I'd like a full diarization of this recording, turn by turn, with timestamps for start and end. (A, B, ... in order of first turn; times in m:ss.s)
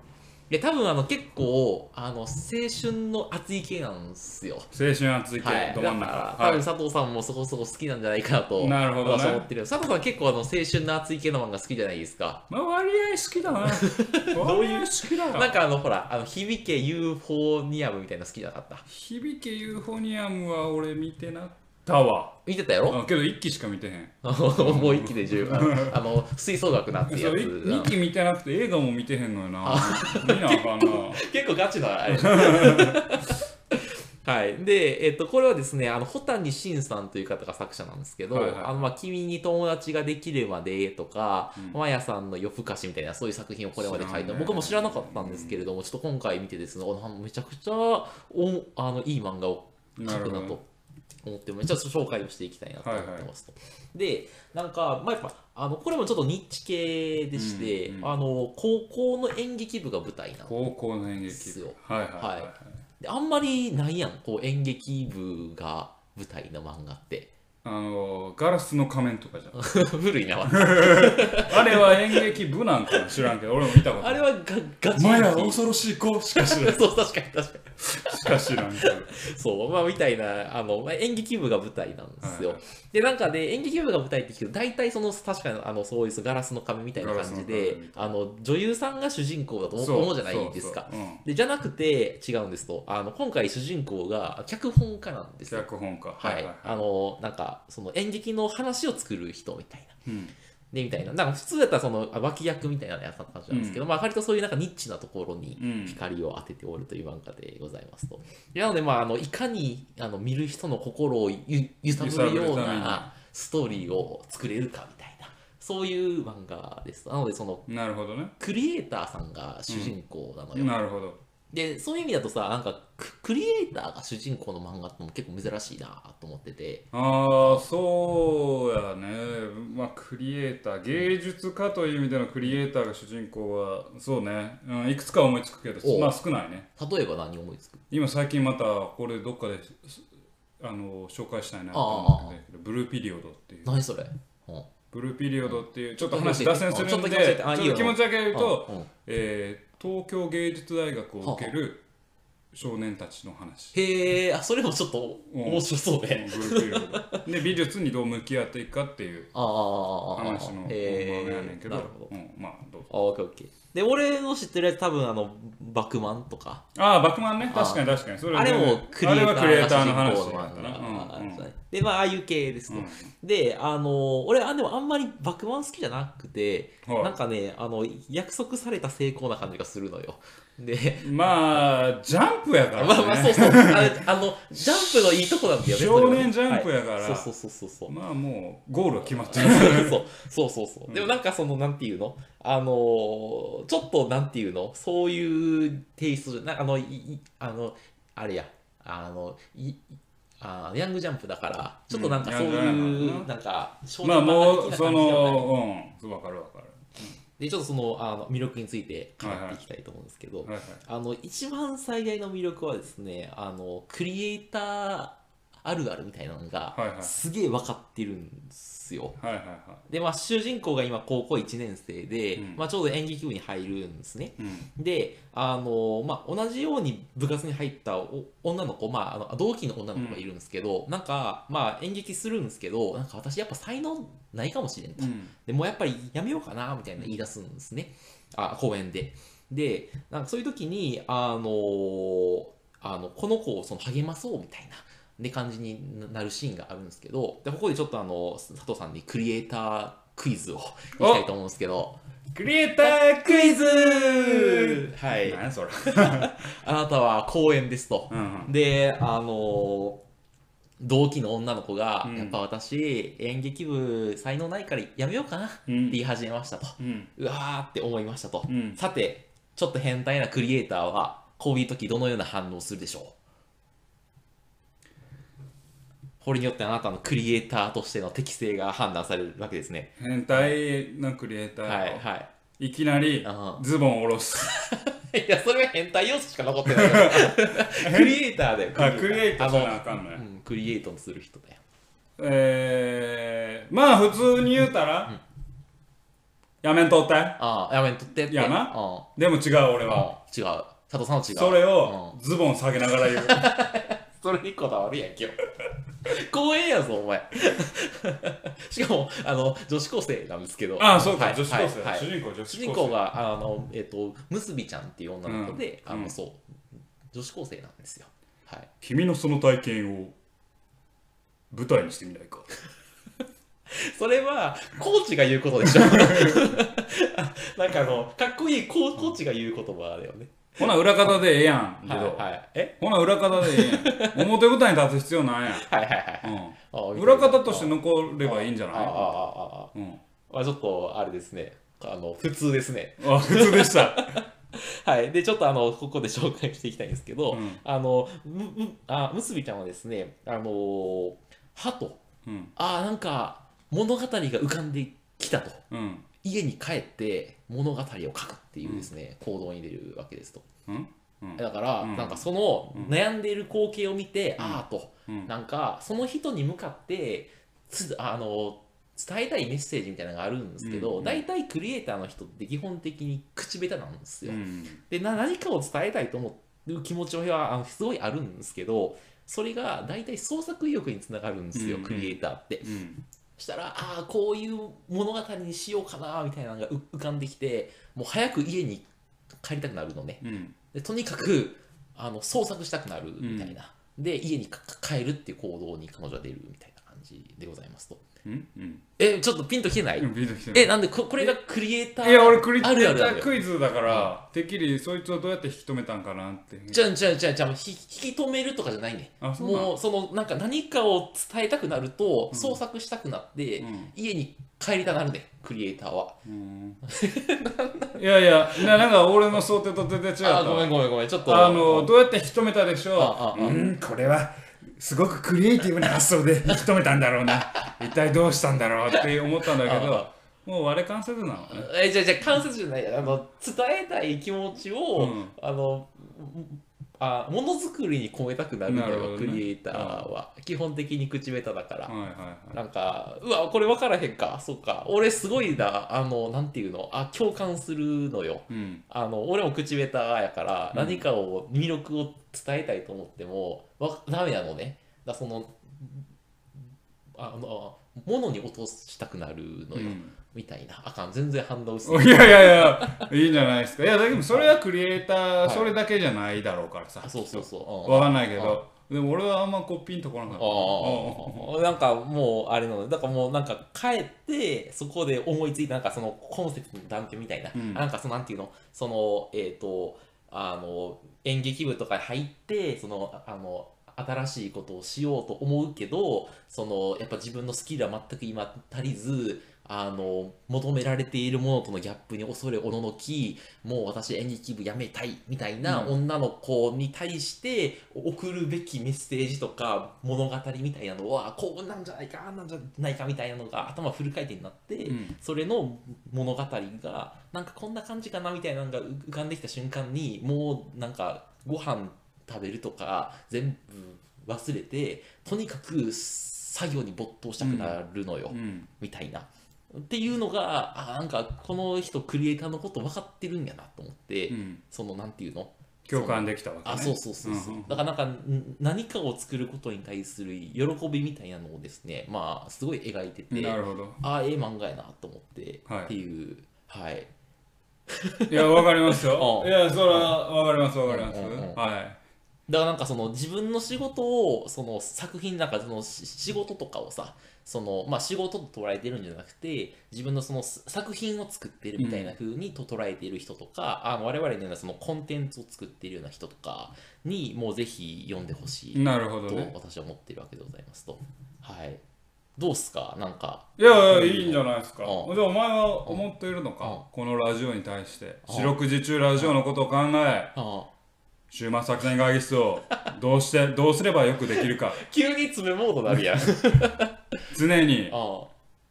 0:00.5-0:04.7 A
0:04.7-0:06.6 B
0:05.4-0:12.4 A
0:08.6-0:09.5 B
0:12.5-0:15.6 B
0:13.7-0:18.8 A
0:18.9-0:26.0 B
0:22.4-0:23.0 A
0:24.2-0:27.9 A
0:27.1-0:31.2 B
0:29.6-0:50.6 A
0:32.1-0:33.2 B
0:38.3-0:38.7 B
0:43.8-0:45.6 B
0:50.0-0:50.6 B
0:51.2-1:00.5 A
0:52.8-0:53.3 B
0:57.3-0:58.1 B
1:00.4-1:02.8 B
1:01.3-1:07.3 A
1:07.6-1:09.7 B
1:09.5-1:12.3 A
1:10.5-1:14.3 B
1:13.8-1:15.6 A
1:14.9-1:16.9 B
1:16.3-1:35.7 A
1:17.9-1:19.1 B
1:22.2-1:22.6 B
1:27.0-1:28.1 B
1:29.8-1:31.2 B
1:35.5-1:36.8 B
1:36.2-1:40.0 A
1:40.0-1:40.3 B
1:40.7-1:57.7 A
1:43.5-1:43.8 B
1:45.6-1:46.0 B
1:51.9-1:53.1 B
1:57.7-1:58.3 B
1:58.4-2:00.7 A
1:59.7-1:59.9 B
2:00.5-2:01.2 B
2:01.5-2:07.6 A
2:06.9-2:16.7 B
2:15.8-2:16.2 A
2:16.8-2:17.8 A
2:17.9-2:20.0 B
2:20.6-2:23.7 B
2:21.7-2:22.4 A
2:23.6-2:24.7 A
2:24.9-2:31.8 B
2:25.4-2:28.9 A
2:31.2-2:31.5 A
2:32.5-2:33.8 B
2:33.7-2:37.2 A
2:35.3-2:39.3 B
2:39.3-2:42.1 A
2:40.1-2:42.9 B
2:42.9-2:46.6 A
2:46.7-2:51.5 B
2:47.5-3:01.6 A
2:52.7-2:53.1 B
2:56.8-2:57.1 B
3:01.0-3:04.0 B
3:02.8-3:07.9 A
3:04.5-3:07.3 B
3:07.9-3:10.0 B
3:09.0-3:25.5 A
3:21.9-3:23.3 B
3:24.0-3:27.2 B
3:27.4-3:39.2 A
3:29.2-3:29.6 B
3:30.4-3:30.8 B
3:36.7-3:37.2 B
3:39.2-3:39.8 B
3:39.9-4:12.0 A
3:42.4-3:42.6 B
3:44.4-3:44.7 B
3:50.0-3:50.2 B
3:55.0-3:55.3 B
4:11.0-4:11.3 B
4:12.3-4:16.4 B
4:12.8-4:20.0 A
4:18.1-4:18.5 B
4:20.8-4:33.2 A
4:22.0-4:22.4 B
4:25.7-4:26.0 B
4:26.8-4:27.1 B
4:28.5-4:28.8 B
4:36.2-4:40.5 A
4:40.0-4:42.0 B
4:41.6-4:42.3 A
4:42.6-4:44.6 B
4:43.2-4:43.6 A
4:44.4-4:51.6 A
4:46.6-4:50.2 B
4:52.2-4:55.1 B
4:56.6-4:57.4 B
4:57.4-4:59.1 A
4:58.3-5:00.1 B
4:59.9-5:02.2 A
5:01.3-5:03.5 B
5:03.0-5:05.4 A
5:06.0-5:16.5 A
5:10.8-5:13.0 B
5:15.2-5:16.2 B
5:17.1-5:18.7 A
5:18.8-5:20.2 B
5:21.5-5:22.5 B
5:23.7-5:31.2 A
5:25.6-5:26.6 B
5:30.6-5:32.2 B
5:31.8-5:32.8 A
5:32.8-5:35.7 B
5:33.4-5:34.3 A
5:35.5-5:39.7 A
5:36.2-5:39.2 B
5:39.7-5:40.0 B
5:40.3-5:52.0 A
5:43.0-5:44.2 B
5:47.3-5:47.6 B
5:52.2-5:52.5 B
5:52.6-5:55.6 A
5:55.7-5:56.1 B
5:56.2-6:00.5 A
5:58.6-5:58.9 B
6:00.7-6:02.9 B
6:01.4-6:22.8 A
6:04.4-6:05.3 B
6:10.6-6:11.2 B
6:14.2-6:14.8 B
6:21.5-6:23.0 B
6:23.4-6:28.9 A
6:29.4-6:38.0 A
6:30.2-6:30.5 B
6:33.2-6:33.6 B
6:38.2-6:38.8 B
6:39.0-6:44.1 A
6:40.0-6:41.4 B
6:42.0-6:46.8 B
6:46.7-6:56.2 A
6:49.2-6:49.7 B
6:52.3-6:52.6 B
6:53.6-6:53.9 B
6:56.2-6:56.8 B
6:56.8-6:58.8 A
6:58.0-7:11.7 B
7:00.2-7:01.9 A
7:03.0-7:03.7 A
7:08.9-7:10.1 A
7:11.5-7:21.9 A
7:15.0-7:15.3 B
7:18.7-7:20.1 B
7:21.9-7:22.6 B
7:22.5-7:36.0 A
7:28.5-7:28.8 B
7:30.7-7:31.0 B
7:37.2-7:43.1 A
7:39.7-7:40.1 B
7:41.8-7:51.5 B
7:44.3-7:44.5 A
7:45.4-7:45.7 A
7:47.0-7:48.6 A
7:50.3-8:57.1 A
7:57.5-7:57.8 B
8:15.6-8:16.0 B
8:24.9-8:25.2 B
8:37.4-8:37.8 B
8:38.3-8:38.7 B
8:44.3-8:44.6 B
8:45.9-8:47.8 B
8:53.3-8:54.0 B
8:55.7-8:55.9 B
8:57.9-9:00.2 A
8:58.3-9:02.0 B
9:00.9-9:01.6 A
9:02.5-9:21.8 A
9:11.8-9:12.1 B
9:18.7-9:19.5 B
9:22.4-9:25.1 A
9:23.6-9:30.3 B
9:28.2-9:28.6 A
9:30.3-9:30.7 A
9:31.3-9:34.8 B
9:34.7-9:37.2 A
9:35.9-9:36.3 B
9:37.3-9:38.0 B
9:37.9-9:38.3 A